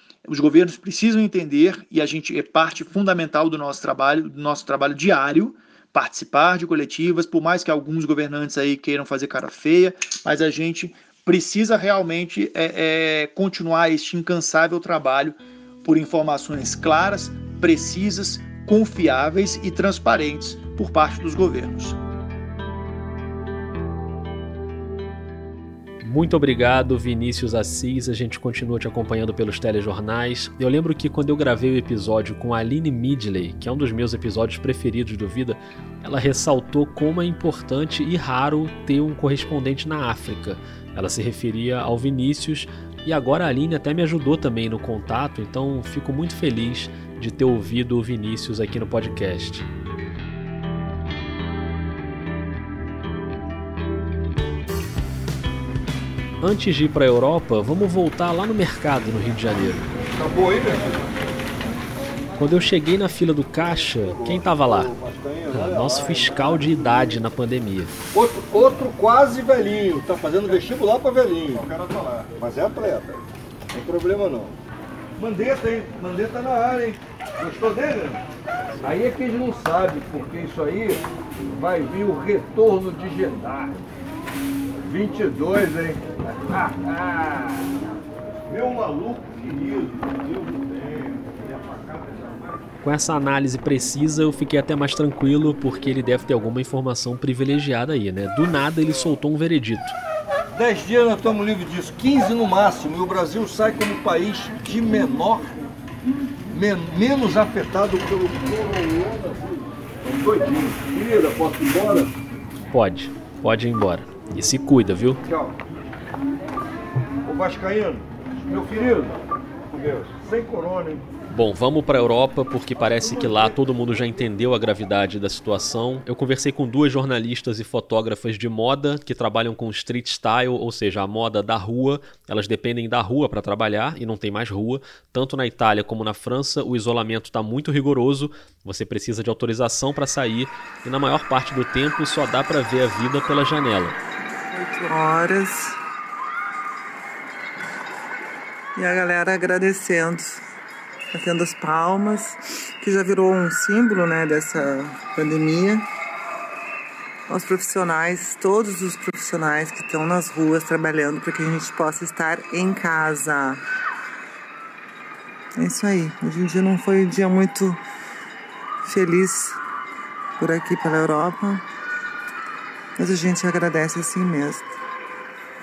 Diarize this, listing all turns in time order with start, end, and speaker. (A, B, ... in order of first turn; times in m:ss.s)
0:00.3-0:22.0 A
0:26.0-0:49.6 B
0:56.4-0:59.9 B
1:00.1-1:01.0 C
1:02.4-1:04.9 B
1:04.1-1:06.5 C
1:05.5-1:07.9 B
1:08.1-1:13.2 C
1:13.7-1:14.5 C
1:15.2-1:18.2 C
1:18.8-1:23.8 C
1:24.8-1:27.7 C
1:28.5-1:32.6 C
1:32.8-1:40.0 B
1:40.5-1:45.7 C
1:46.5-1:52.1 C
1:52.7-1:55.2 B
1:55.2-1:55.5 C
1:57.2-1:59.2 C
1:59.7-2:01.0 C
2:01.3-2:24.0 B
2:24.5-2:25.8 D
2:28.8-2:30.4 D
2:31.1-2:35.8 D
2:37.3-2:43.6 D
2:45.6-2:47.8 D
2:48.8-2:49.6 D
2:50.4-2:51.6 D
2:53.0-2:54.6 D